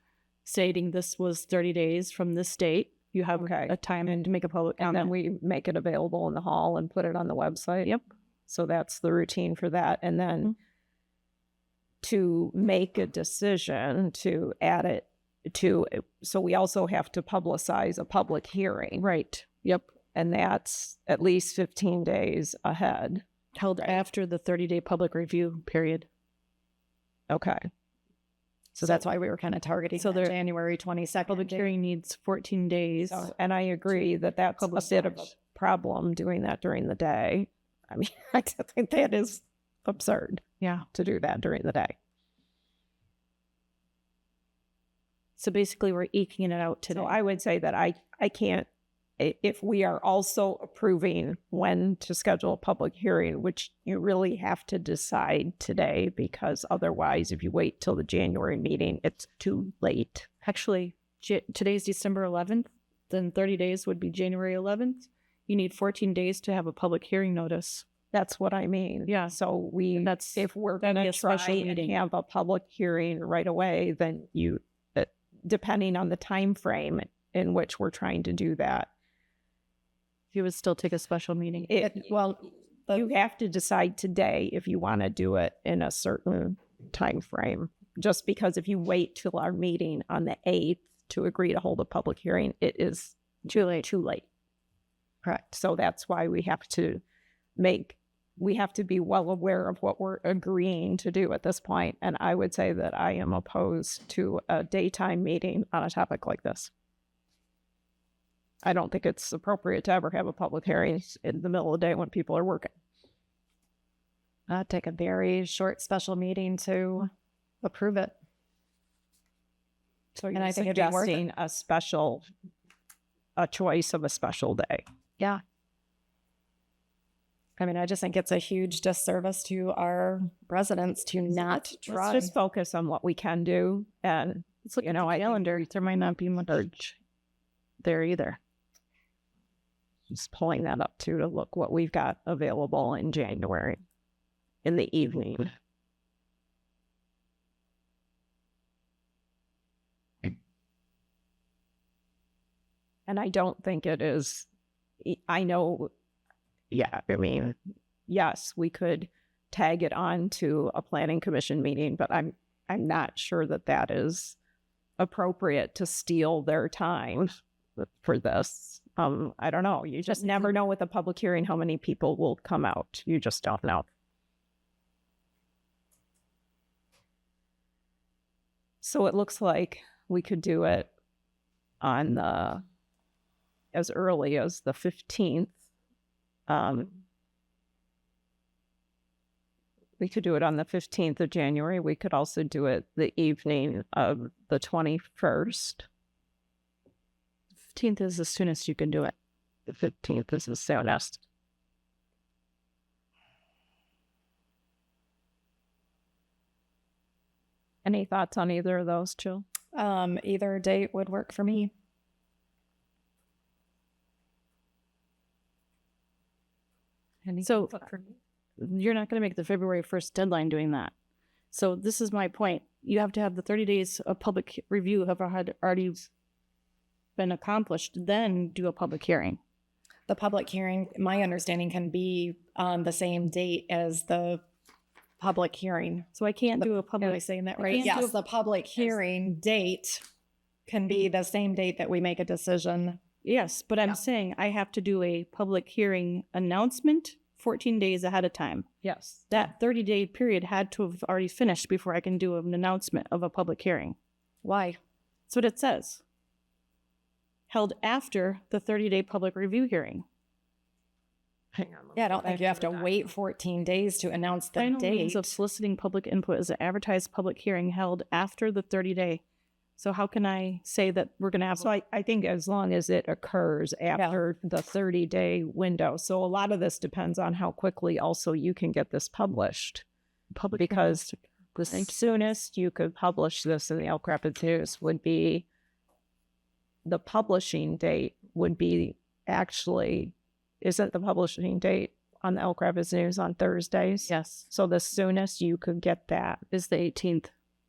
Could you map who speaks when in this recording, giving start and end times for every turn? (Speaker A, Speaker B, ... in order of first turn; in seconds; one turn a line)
Speaker A: 0.5-5.1
Speaker B: 3.4-7.9
Speaker B: 8.5-10.5
Speaker B: 12.0-19.0
Speaker A: 19.0-19.9
Speaker B: 20.1-23.2
Speaker A: 23.6-26.1
Speaker B: 27.3-27.7
Speaker B: 28.8-29.1
Speaker C: 28.8-31.7
Speaker A: 30.0-30.4
Speaker A: 31.3-33.3
Speaker B: 33.1-42.0
Speaker A: 33.9-35.3
Speaker A: 40.6-40.9
Speaker A: 45.4-47.2
Speaker B: 46.9-48.7
Speaker B: 49.2-60.3
Speaker A: 60.4-67.9
Speaker B: 68.1-78.9
Speaker A: 69.1-69.3
Speaker A: 70.0-72.0
Speaker A: 80.3-81.7
Speaker B: 81.7-82.0
Speaker C: 81.8-83.1
Speaker B: 82.9-94.3
Speaker A: 93.5-93.9
Speaker B: 95.5-97.0
Speaker B: 97.6-106.7
Speaker B: 108.6-112.7
Speaker C: 114.5-117.1
Speaker C: 117.6-118.1
Speaker B: 120.2-122.2
Speaker C: 120.3-121.2
Speaker B: 123.3-124.8
Speaker C: 127.6-132.3
Speaker B: 131.6-135.6
Speaker A: 134.7-137.0
Speaker A: 137.8-138.4
Speaker B: 140.1-143.8
Speaker B: 144.6-145.5
Speaker B: 153.1-154.5
Speaker B: 155.0-155.9
Speaker B: 156.7-157.6
Speaker B: 158.1-164.4
Speaker B: 165.0-173.9
Speaker B: 178.8-180.9
Speaker B: 181.8-182.6
Speaker B: 183.7-185.6
Speaker B: 186.5-187.0
Speaker B: 190.0-195.9
Speaker A: 197.7-199.1
Speaker B: 199.7-201.2
Speaker B: 207.8-209.5
Speaker C: 209.7-211.7
Speaker B: 217.2-218.1
Speaker A: 217.4-217.9
Speaker A: 218.6-220.9
Speaker A: 221.5-226.1
Speaker A: 227.2-229.4
Speaker C: 230.1-234.4
Speaker C: 235.2-236.1
Speaker A: 236.2-238.1
Speaker C: 237.0-240.0
Speaker B: 237.0-237.9
Speaker C: 240.7-243.0
Speaker A: 243.2-248.7
Speaker B: 248.8-249.2
Speaker A: 249.3-254.0
Speaker C: 254.4-254.8
Speaker A: 255.3-256.0
Speaker A: 257.5-260.0
Speaker B: 261.5-263.1
Speaker C: 261.9-265.4
Speaker A: 264.6-269.2
Speaker A: 269.8-271.7
Speaker B: 271.5-279.8
Speaker C: 273.9-274.2
Speaker A: 280.3-282.0
Speaker B: 280.6-281.0
Speaker B: 281.7-285.5
Speaker B: 286.8-296.4
Speaker A: 294.1-294.5
Speaker A: 296.5-297.3